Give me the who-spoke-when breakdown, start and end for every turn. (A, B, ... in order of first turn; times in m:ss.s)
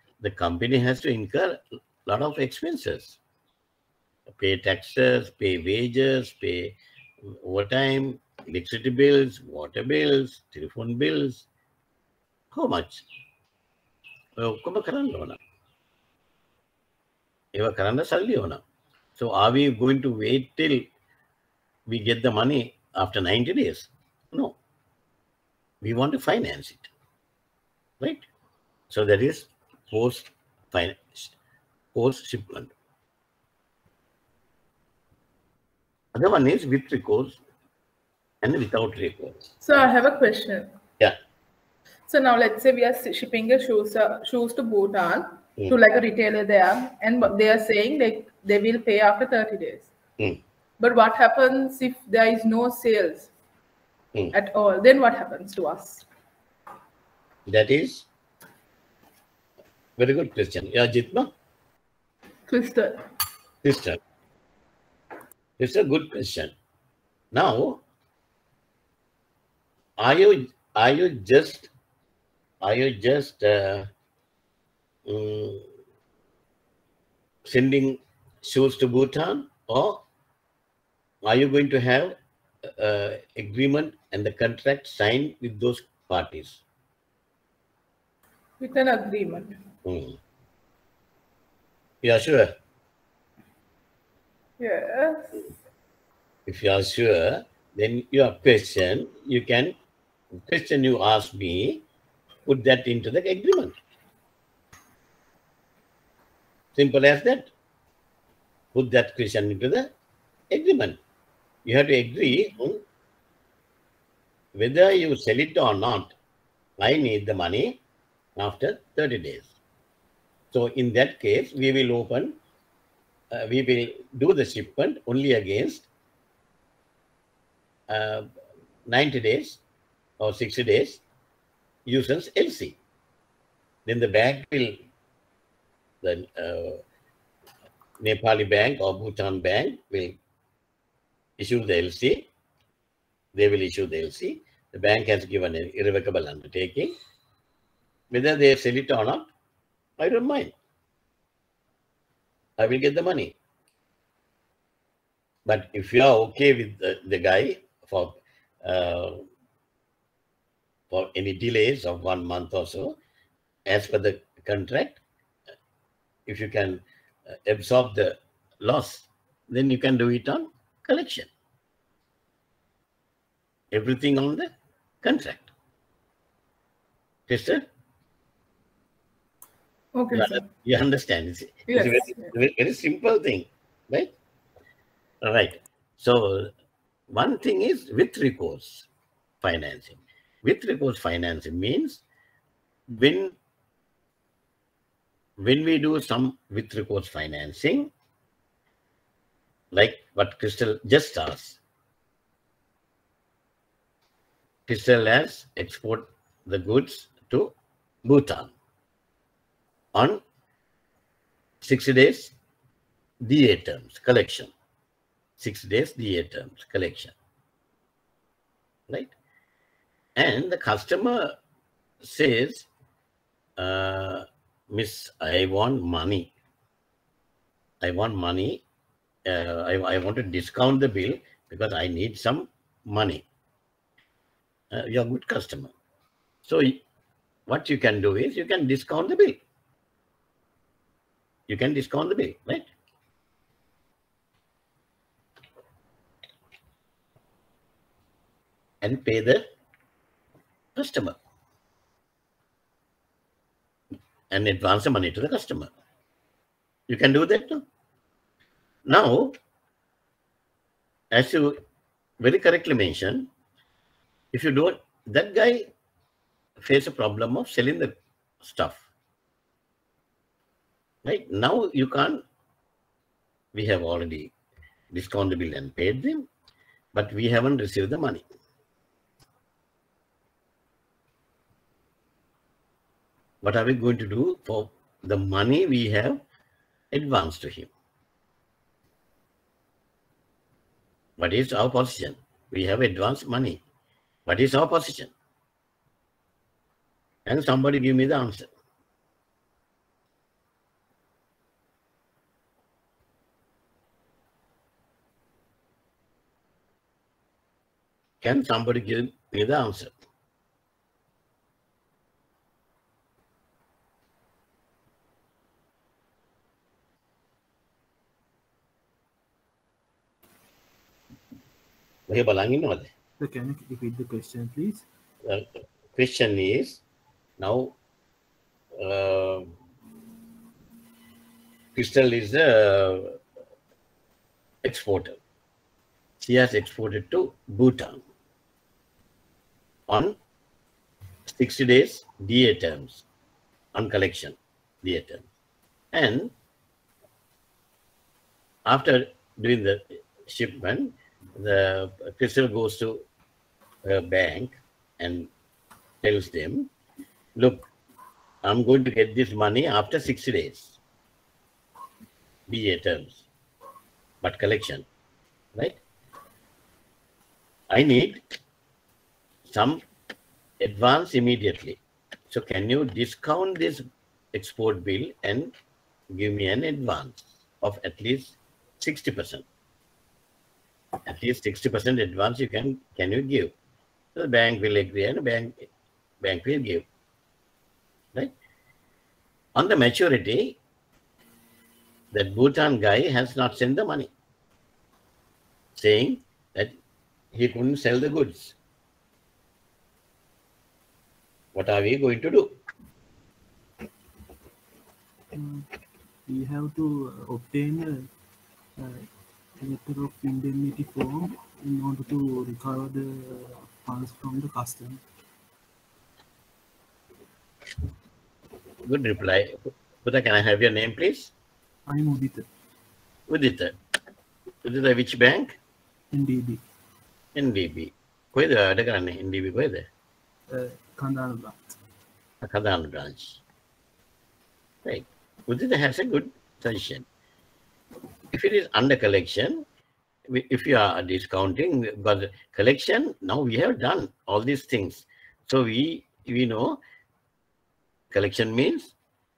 0:00.2-0:03.2 A
0:04.4-0:06.8 A
0:07.4-0:11.5 A
0:12.5-0:13.0 A
0:14.4-0:15.4 A
0:17.6-0:18.6 A
0:19.2-0:20.8 A
0:21.9-0:24.6 A
0:25.8-0:26.9 A
0:28.0-0:28.2 A
0:28.9-0:31.3 A
0:32.0-0:32.7 A
0:36.1-0:37.4 A
0:38.4-0:39.5 A
0:39.6-0:40.7 B
0:42.1-0:49.9 B
0:50.8-0:53.3 B
0:54.3-0:56.0 B
0:57.5-0:58.1 A
1:00.0-1:01.3 A
1:02.5-1:03.0 B
1:03.6-1:04.0 A
1:05.6-1:06.5 A
1:07.3-1:07.8 A
1:10.0-1:11.7 A
1:12.6-1:13.9 A
1:15.1-1:15.6 A
1:17.5-1:20.0 A
1:21.2-1:26.6 A
1:28.6-1:29.6 B
1:29.8-1:30.2 A
1:32.0-1:32.5 A
1:34.6-1:35.5 B
1:36.5-1:39.7 A
1:40.5-1:41.8 A
1:42.5-1:43.8 A
1:46.8-1:47.5 A
1:48.7-1:49.9 A
1:50.5-1:51.0 A
1:51.7-1:52.8 A
1:54.6-1:56.1 A
1:56.8-1:57.8 A
1:58.4-1:59.5 A
2:00.5-2:02.4 A
2:03.3-2:05.8 A
2:07.9-2:08.3 A
2:08.9-2:09.6 A
2:10.2-2:11.0 A
2:11.9-2:12.8 A
2:13.9-2:14.8 A
2:16.0-2:16.8 A
2:18.0-2:20.2 A
2:21.4-2:22.2 A
2:23.4-2:26.9 A
2:28.1-2:29.3 A
2:30.0-2:30.5 A
2:32.6-2:33.3 A
2:35.5-2:39.2 A
2:40.9-2:43.0 A
2:43.7-2:45.0 A
2:46.3-2:46.8 A
2:47.5-2:51.3 A
2:53.7-2:54.5 A
2:55.0-2:55.5 A
2:57.3-2:57.6 A
3:00.0-3:00.5 B
3:00.1-3:04.1 A
3:01.7-3:02.3 B
3:05.2-3:06.5 A
3:07.1-3:08.9 A
3:09.4-3:12.0 A
3:12.9-3:13.4 A
3:15.4-3:17.9 A
3:19.7-3:21.6 A
3:24.7-3:27.5 A
3:28.0-3:28.5 A
3:29.9-3:30.2 A
3:31.6-3:32.3 A
3:33.2-3:34.5 A
3:35.4-3:37.1 A
3:40.2-3:41.3 A
3:42.0-3:42.7 A
3:43.6-3:46.3 A
3:47.8-3:48.6 A
3:49.3-3:53.2 A
3:54.7-3:55.7 A
3:56.5-3:56.8 A
3:57.5-3:59.4 A
4:01.5-4:02.7 A
4:08.8-4:09.4 A
4:10.8-4:11.2 A
4:14.3-4:15.7 A
4:16.9-4:17.6 A
4:18.9-4:19.4 A
4:21.1-4:21.6 A
4:22.2-4:23.3 A
4:24.3-4:25.7 A
4:26.6-4:28.8 A
4:31.0-4:32.2 A
4:33.5-4:34.3 A
4:34.9-4:36.3 A
4:36.9-4:38.2 A
4:43.4-4:46.2 A
4:46.9-4:47.7 A
4:51.2-4:53.6 A
4:54.3-4:55.1 A
4:57.3-4:58.5 A
5:08.2-5:09.9 A
5:22.1-5:22.9 A
5:23.2-5:24.8 C
5:25.2-5:26.8 A
5:27.4-5:27.7 A
5:28.8-5:29.5 A
5:31.8-5:33.2 A
5:34.6-5:35.2 A
5:36.2-5:38.0 A
5:39.9-5:40.2 A
5:41.3-5:43.0 A
5:43.8-5:45.2 A
5:45.9-5:46.3 A
5:48.7-5:53.0 A
5:53.9-5:55.3 A
5:56.0-5:56.7 A
5:57.4-5:57.7 A
5:58.4-6:00.8 A
6:02.5-6:03.2 A
6:04.2-6:04.9 A
6:07.7-6:08.2 A
6:09.5-6:09.8 A
6:10.6-6:11.8 A
6:12.3-6:15.5 A
6:16.1-6:19.4 A
6:21.1-6:23.5 A
6:24.2-6:25.6 A
6:26.2-6:26.8 A
6:29.6-6:30.6 A
6:32.1-6:34.1 A
6:35.8-6:36.8 A
6:37.3-6:38.5 A
6:41.6-6:42.5 A
6:45.3-6:45.7 C
6:46.3-6:48.1 C
6:48.8-6:55.0 C
6:58.8-7:01.3 A
7:01.9-7:02.5 C
7:03.3-7:03.7 A
7:04.6-7:05.6 A
7:06.1-7:06.6 C
7:07.4-7:09.9 A
7:10.5-7:11.6 C
7:12.4-7:13.4 A
7:14.8-7:17.0 A
7:18.3-7:19.6 A
7:20.3-7:26.8 A
7:28.1-7:28.9 A